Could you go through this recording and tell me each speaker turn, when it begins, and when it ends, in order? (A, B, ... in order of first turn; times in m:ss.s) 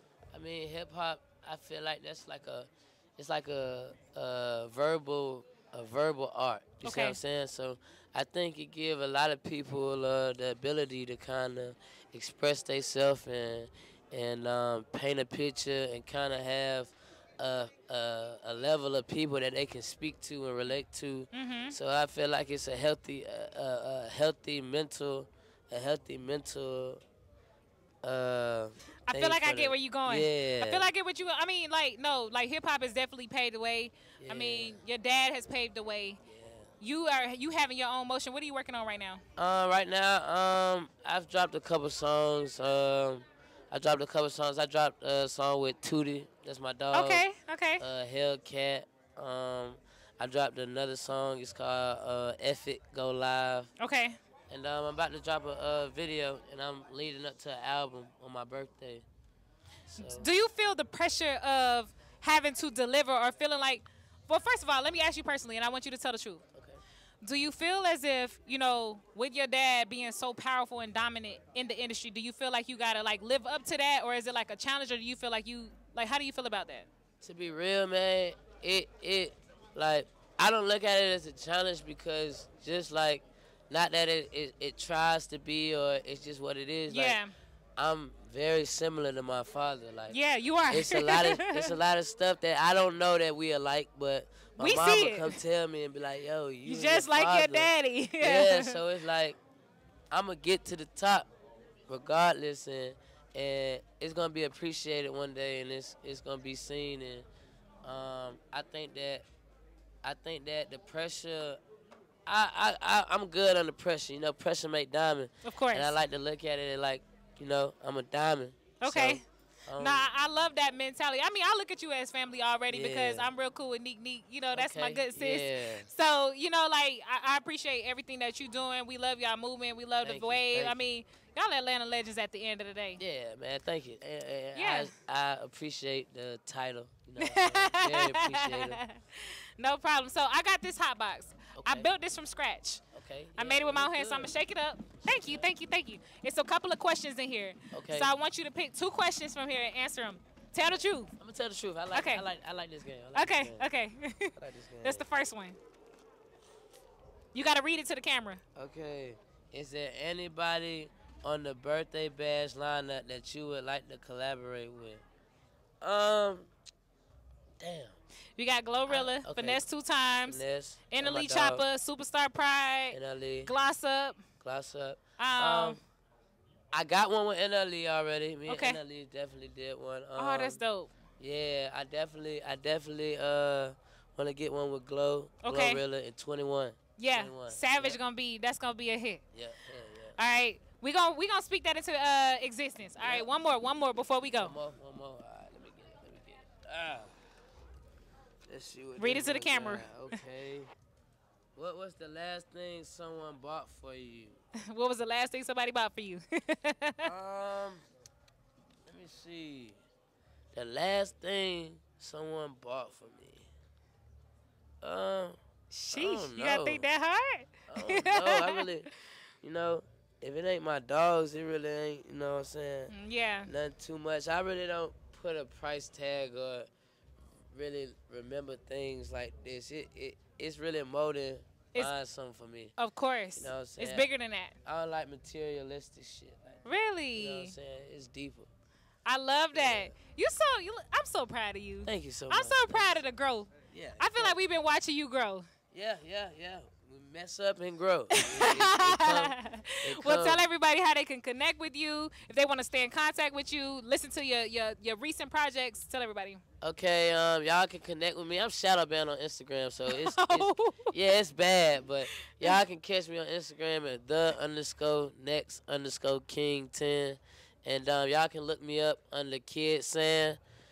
0:00.3-0:27.0 A
0:06.8-0:07.2 B
0:21.3-0:21.8 B
0:28.0-0:30.9 A
0:29.0-0:36.2 B
0:34.2-0:34.8 A
0:36.2-0:36.7 A
0:36.8-0:39.2 B
0:39.4-0:47.2 A
0:46.9-0:47.8 B
0:47.8-0:53.7 A
0:53.8-0:54.2 B
0:54.5-0:59.0 A
0:59.9-1:00.3 A
1:00.0-1:06.4 B
1:06.5-1:06.8 A
1:07.2-1:16.9 B
1:17.2-1:27.2 A
1:26.9-1:27.3 B
1:27.8-1:30.2 A
1:30.1-1:31.7 B
1:30.7-1:39.4 A
1:34.6-1:35.4 B
1:36.6-1:38.8 B
1:40.1-1:41.3 A
1:41.9-1:47.2 A
1:47.8-1:49.2 A
1:50.0-1:51.6 A
1:52.2-2:00.1 A
1:55.4-1:56.0 B
1:58.8-1:59.2 B
1:59.7-2:13.0 B
2:02.7-2:03.3 A
2:04.5-2:05.9 A
2:10.0-2:10.8 A
2:13.0-2:18.8 A
2:14.5-2:14.9 B
2:17.2-2:22.8 B
2:21.5-2:21.9 A
2:22.9-2:24.3 A
2:23.4-2:31.1 B
2:25.0-2:25.5 A
2:27.7-2:28.1 A
2:31.2-2:33.7 A
2:31.9-2:32.3 B
2:33.1-2:35.6 B
2:34.4-2:35.0 A
2:37.3-2:38.4 B
2:38.5-2:45.0 A
2:45.8-2:46.5 A
2:47.6-2:48.0 A
2:48.4-2:54.2 B
2:48.9-2:49.6 A
2:50.2-2:51.6 A
2:52.9-2:53.5 A
2:54.4-2:55.8 A
2:55.2-2:55.8 B
2:56.7-3:00.6 A
2:58.5-2:58.8 B
3:00.2-3:00.9 B
3:01.2-3:08.0 A
3:05.4-3:05.8 B
3:07.0-3:09.2 B
3:09.3-3:10.2 A
3:10.2-3:14.5 B
3:13.0-3:13.3 A
3:14.4-3:17.1 A
3:18.5-3:20.7 A
3:19.0-3:20.2 B
3:21.5-3:24.4 A
3:24.5-3:27.1 B
3:27.0-3:27.8 A
3:28.9-3:29.8 A
3:30.5-3:33.5 A
3:34.8-3:35.4 A
3:35.7-3:38.7 B
3:35.9-3:36.8 A
3:37.7-3:38.9 A
3:39.4-3:42.9 A
3:42.9-3:43.5 B
3:43.5-3:46.7 A
3:47.5-3:52.7 A
3:52.8-3:54.5 B
3:53.4-3:54.1 A
3:54.6-3:56.6 A
3:56.6-3:57.5 B
3:57.1-3:58.5 A
3:59.0-4:05.4 B
3:59.5-3:59.9 A
4:01.8-4:03.0 A
4:03.7-4:04.4 A
4:05.7-4:10.4 A
4:08.2-4:16.4 B
4:16.6-4:30.4 A
4:19.9-4:20.9 B